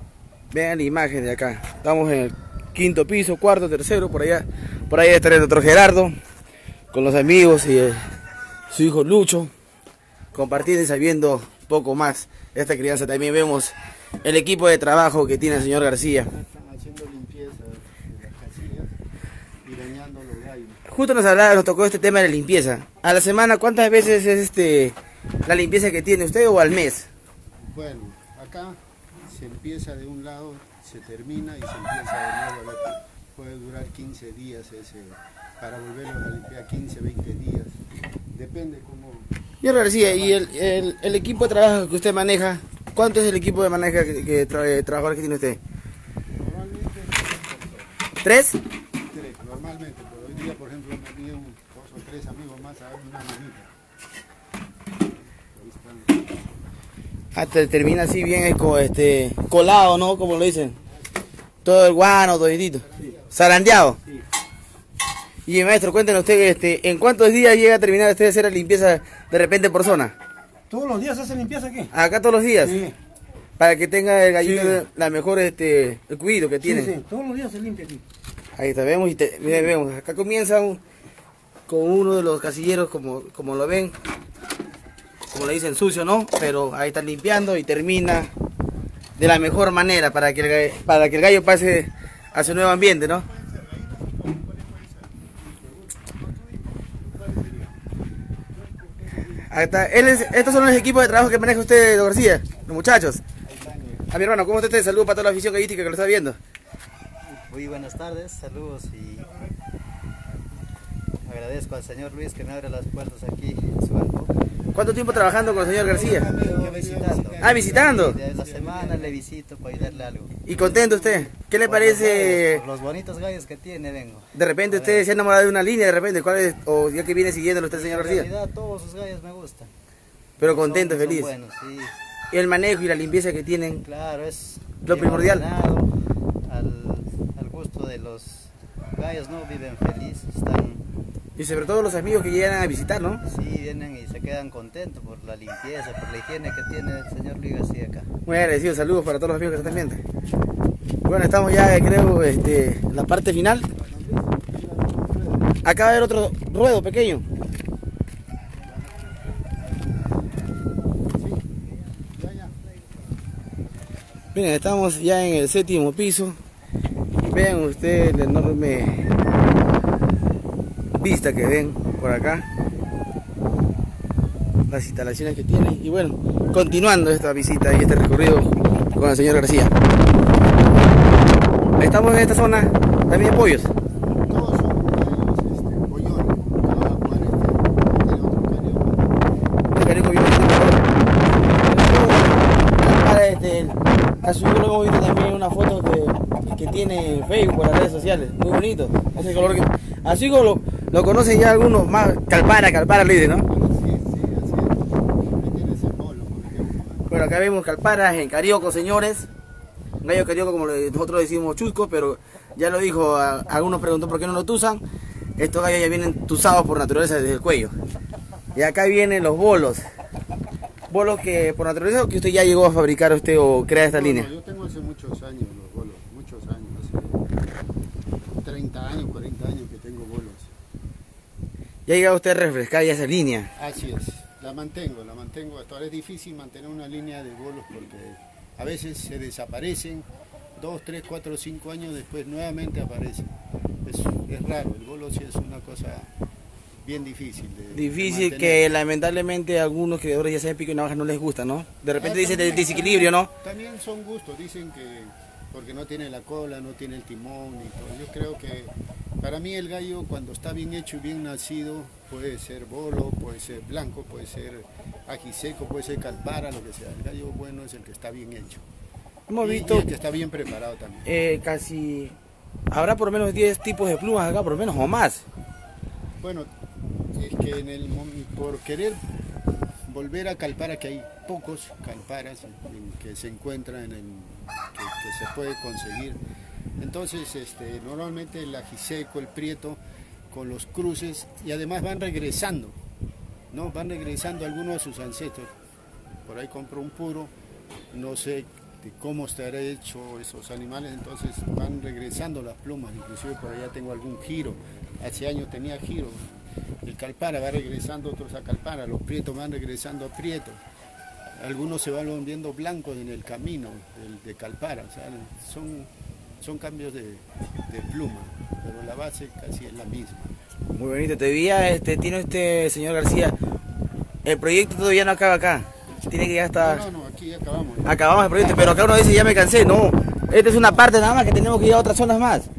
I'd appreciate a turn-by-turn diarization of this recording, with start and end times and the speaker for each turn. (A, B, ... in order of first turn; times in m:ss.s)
0:00.5-0:06.1 A
0:06.9-0:08.1 A
0:08.7-0:09.5 A
0:10.3-0:16.3 A
0:16.2-0:18.9 B
0:19.6-0:20.9 B
0:20.9-0:27.1 A
0:27.6-0:37.8 B
0:38.3-0:39.3 B
0:39.6-0:45.6 A
0:39.8-0:40.5 B
0:46.3-0:48.0 B
0:48.2-0:48.6 A
0:49.1-0:53.7 B
0:55.4-0:56.2 B
0:57.3-1:00.8 A
1:01.6-1:04.0 A
1:02.8-1:03.3 B
1:05.4-1:10.1 A
1:10.7-1:11.9 C
1:11.9-1:12.8 A
1:12.6-1:13.0 C
1:13.6-1:17.0 A
1:14.4-1:14.8 C
1:16.6-1:18.0 C
1:18.6-1:20.8 A
1:21.7-1:24.0 A
1:25.3-1:28.3 A
1:29.2-1:33.3 A
1:35.4-1:37.8 B
1:38.5-1:39.8 B
1:39.5-1:43.2 A
1:43.4-1:44.1 B
1:44.1-1:46.4 A
1:47.3-1:49.3 D
1:51.2-1:54.3 D
1:54.7-1:56.3 A
1:55.8-1:59.2 B
1:56.1-2:00.6 D
1:57.4-1:58.2 A
1:59.8-2:01.2 B
2:00.4-2:02.6 A
2:01.6-2:05.1 D
2:04.3-2:08.3 A
2:07.7-2:09.7 D
2:10.4-2:11.3 A
2:10.4-2:11.9 D
2:12.3-2:13.8 A
2:13.8-2:15.9 D
2:14.8-2:15.4 A
2:16.4-2:20.9 D
2:21.4-2:23.2 A
2:23.2-2:28.1 D
2:28.2-2:30.0 A
2:29.5-2:29.9 D
2:31.0-2:33.7 A
2:33.7-2:35.6 B
2:35.6-2:37.2 A
2:38.6-2:39.2 B
2:41.1-2:41.4 B
2:42.1-2:42.6 B
2:44.3-2:46.4 A
2:47.2-2:49.1 A
2:50.9-2:52.4 A
2:54.7-2:59.8 A
3:01.8-3:03.7 A
3:04.2-3:09.2 B
3:09.7-3:10.9 A
3:11.5-3:23.4 A
3:19.1-3:19.5 B
3:23.4-3:27.1 B
3:27.1-3:29.3 A
3:30.0-3:34.8 A
3:35.4-3:37.7 A
3:38.5-3:39.8 A
3:40.9-3:44.3 A
3:43.8-3:47.3 B
3:48.2-3:50.5 B
3:51.8-3:53.5 A
3:53.5-4:06.1 B
4:06.8-4:08.7 B
4:07.7-4:13.3 A
4:11.9-4:28.6 B
4:29.3-4:29.9 A
4:29.4-4:31.1 B
4:31.0-4:32.2 A
4:32.7-4:35.2 A
4:36.2-4:36.5 B
4:37.1-4:39.0 B
4:39.8-4:46.2 B
4:46.8-4:49.8 B
4:50.3-4:52.8 B
4:53.5-4:55.5 B
4:56.2-4:57.3 B
4:57.9-5:10.6 B
5:11.4-5:20.3 B
5:20.7-5:23.3 A
5:24.2-5:26.8 A
5:26.6-5:28.8 B
5:27.8-5:32.5 A
5:30.5-5:30.9 B